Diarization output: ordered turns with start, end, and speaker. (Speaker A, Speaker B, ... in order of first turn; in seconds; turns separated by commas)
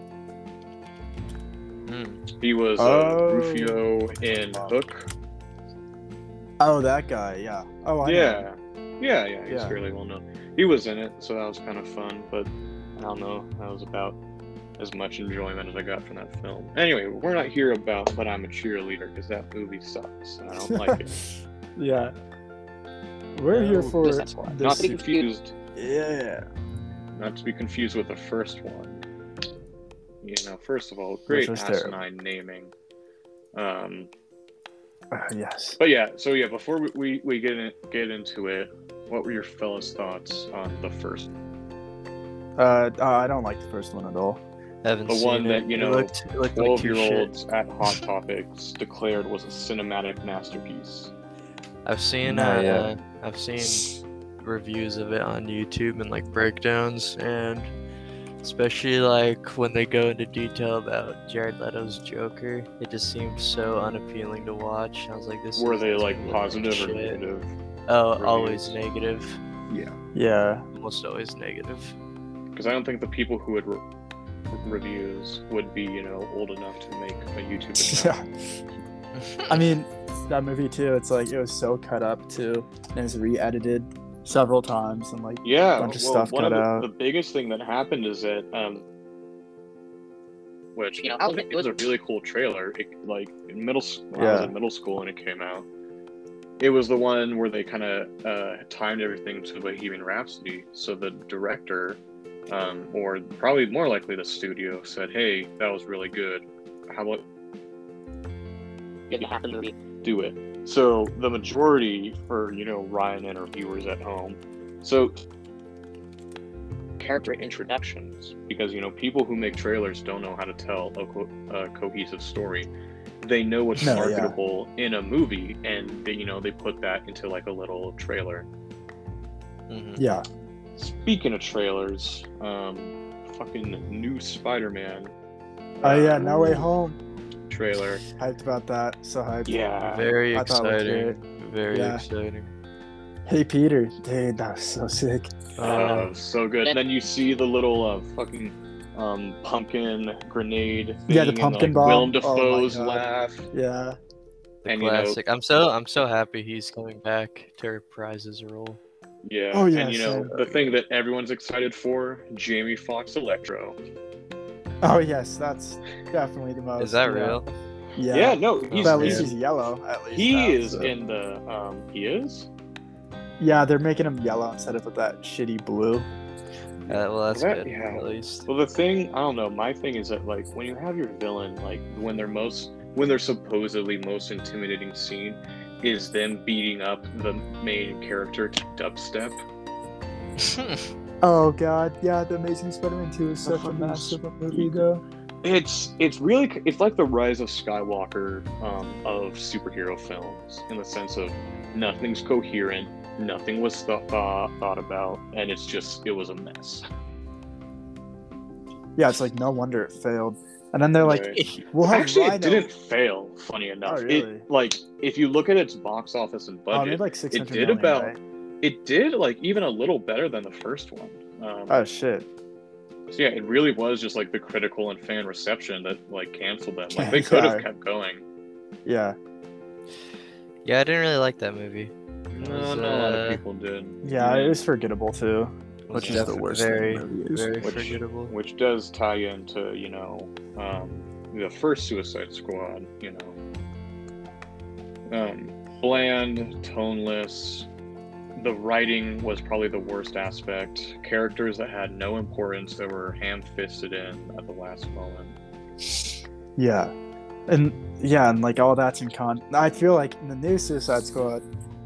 Speaker A: 1.9-2.2, Speaker B: 2.4-5.1, Speaker C: 2.8-4.7, Speaker C: 6.6-8.5, Speaker B: 8.0-14.2, Speaker C: 9.5-9.8, Speaker B: 14.8-21.1, Speaker C: 20.6-21.0, Speaker C: 21.8-22.1, Speaker C: 23.4-24.9, Speaker D: 23.7-25.2, Speaker B: 24.6-25.5, Speaker C: 25.8-26.5, Speaker B: 27.1-29.0, Speaker B: 30.2-32.7, Speaker C: 31.3-32.0, Speaker B: 33.5-34.1, Speaker C: 35.1-35.8, Speaker B: 35.8-41.3, Speaker C: 42.6-44.4, Speaker A: 44.8-47.3, Speaker B: 45.1-51.1, Speaker A: 51.9-53.9, Speaker C: 52.2-52.9, Speaker A: 54.4-57.7, Speaker A: 58.4-67.2, Speaker B: 65.6-67.5, Speaker A: 67.9-69.4, Speaker B: 68.2-68.8, Speaker B: 69.7-70.0, Speaker C: 70.1-70.7, Speaker A: 70.7-72.0, Speaker B: 72.5-73.8, Speaker B: 74.5-78.2, Speaker C: 77.8-78.6, Speaker A: 79.2-79.6, Speaker C: 79.5-86.9, Speaker B: 85.4-88.8, Speaker B: 90.8-95.7, Speaker D: 91.0-91.7, Speaker C: 94.2-94.5, Speaker B: 96.6-107.2, Speaker B: 109.1-109.4, Speaker D: 109.1-109.8, Speaker B: 110.0-115.2, Speaker B: 117.0-122.7, Speaker D: 117.0-117.8, Speaker B: 123.2-128.5, Speaker C: 123.8-124.4, Speaker A: 129.7-130.0, Speaker C: 130.0-130.2, Speaker B: 130.8-135.1, Speaker B: 135.8-136.7, Speaker C: 135.8-137.0, Speaker B: 137.5-138.0, Speaker C: 138.2-139.6, Speaker B: 139.5-140.1, Speaker A: 139.8-142.5, Speaker C: 140.3-141.2, Speaker C: 141.7-142.0, Speaker C: 143.3-146.0, Speaker A: 145.6-146.1, Speaker B: 145.6-153.5, Speaker C: 151.1-154.0, Speaker A: 154.7-158.8, Speaker B: 154.7-155.2, Speaker B: 159.2-163.8, Speaker C: 159.5-160.4, Speaker C: 164.8-167.4, Speaker A: 166.8-167.4, Speaker C: 168.0-170.9, Speaker B: 168.1-169.3, Speaker A: 168.7-169.3, Speaker B: 170.1-172.5, Speaker C: 173.4-176.1, Speaker B: 176.9-189.4, Speaker A: 176.9-178.5, Speaker A: 190.4-190.9, Speaker C: 191.2-195.0, Speaker B: 193.4-194.8, Speaker B: 195.4-206.8, Speaker C: 209.0-212.7, Speaker B: 211.0-221.8, Speaker A: 211.4-211.6, Speaker C: 213.8-214.5, Speaker C: 216.7-218.2, Speaker C: 221.7-222.3, Speaker B: 223.1-228.2, Speaker C: 226.9-227.7, Speaker C: 228.8-229.2, Speaker A: 230.7-233.4, Speaker B: 232.3-234.6, Speaker C: 234.0-237.5, Speaker A: 235.9-238.3, Speaker B: 236.0-236.3, Speaker B: 237.6-243.4, Speaker B: 245.1-247.7, Speaker B: 248.4-255.4, Speaker C: 256.6-256.9, Speaker C: 257.5-261.4